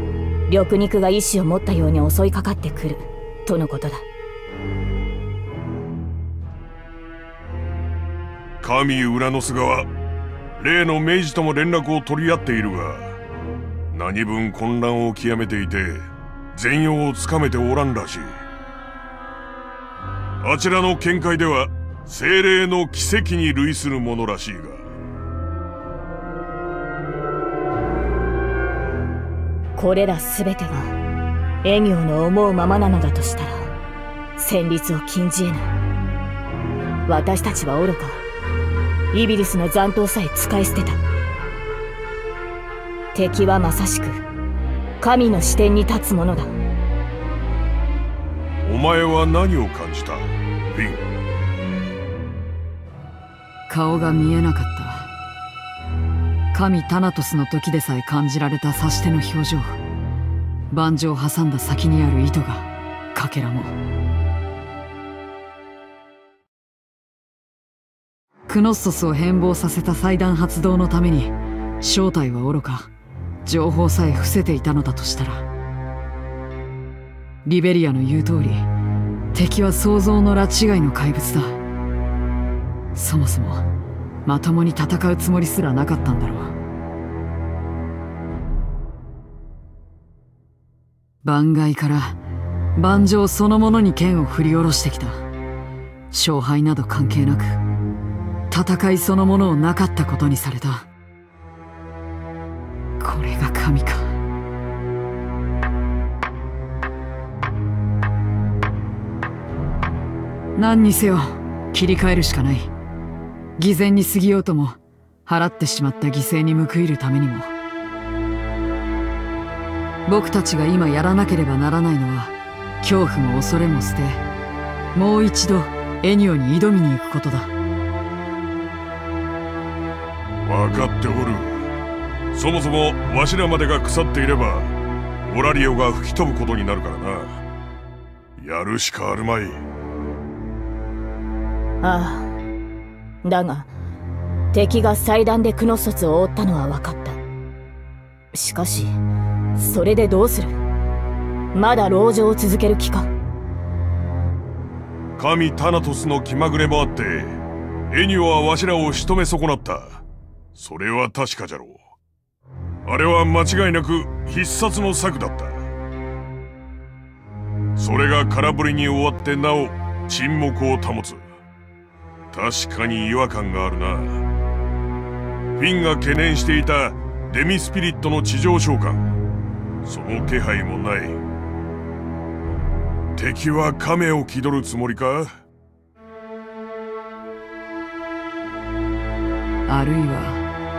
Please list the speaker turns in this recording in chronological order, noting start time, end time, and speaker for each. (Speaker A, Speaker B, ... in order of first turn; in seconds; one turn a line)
Speaker A: 0.5-4.0
Speaker B: 8.6-9.9
Speaker B: 10.6-13.2
Speaker B: 13.9-18.4
Speaker B: 20.4-24.9
Speaker A: 29.8-31.0
Speaker A: 31.6-33.7
Speaker A: 34.4-35.7
Speaker A: 37.1-38.2
Speaker A: 39.1-41.0
Speaker A: 43.1-44.2
Speaker A: 45.0-46.5
Speaker B: 48.6-51.0
Speaker C: 53.7-55.1
Speaker C: 56.5-59.8
Speaker C: 60.7-63.7
Speaker C: 68.5-72.9
Speaker C: 73.5-75.5
Speaker C: 77.5-78.7
Speaker C: 79.3-81.6
Speaker C: 83.0-83.7
Speaker C: 84.2-86.5
Speaker C: 91.2-92.2
Speaker C: 92.8-95.2
Speaker C: 96.1-97.6
Speaker C: 98.5-100.9
Speaker C: 103.0-104.2
Speaker C: 110.6-112.7
Speaker C: 113.6-117.5
Speaker C: 120.1-124.2
Speaker C: 124.9-127.5
Speaker B: 130.4-131.7
Speaker B: 132.3-134.7
Speaker B: 135.3-137.4
Speaker B: 138.4-139.6
Speaker A: 141.8-142.3
Speaker A: 143.2-143.7
Speaker A: 144.5-147.2
Speaker A: 148.3-148.9
Speaker A: 149.6-150.6
Speaker A: 151.5-153.1
Speaker B: 155.2-160.0
Speaker B: 160.6-161.8
Speaker B: 162.8-165.6
Speaker B: 167.8-171.2
Speaker B: 172.3-174.2
Speaker B: 175.6-179.1
Speaker B: 179.8-181.2
Speaker B: 183.2-185.4
Speaker C: 189.7-190.4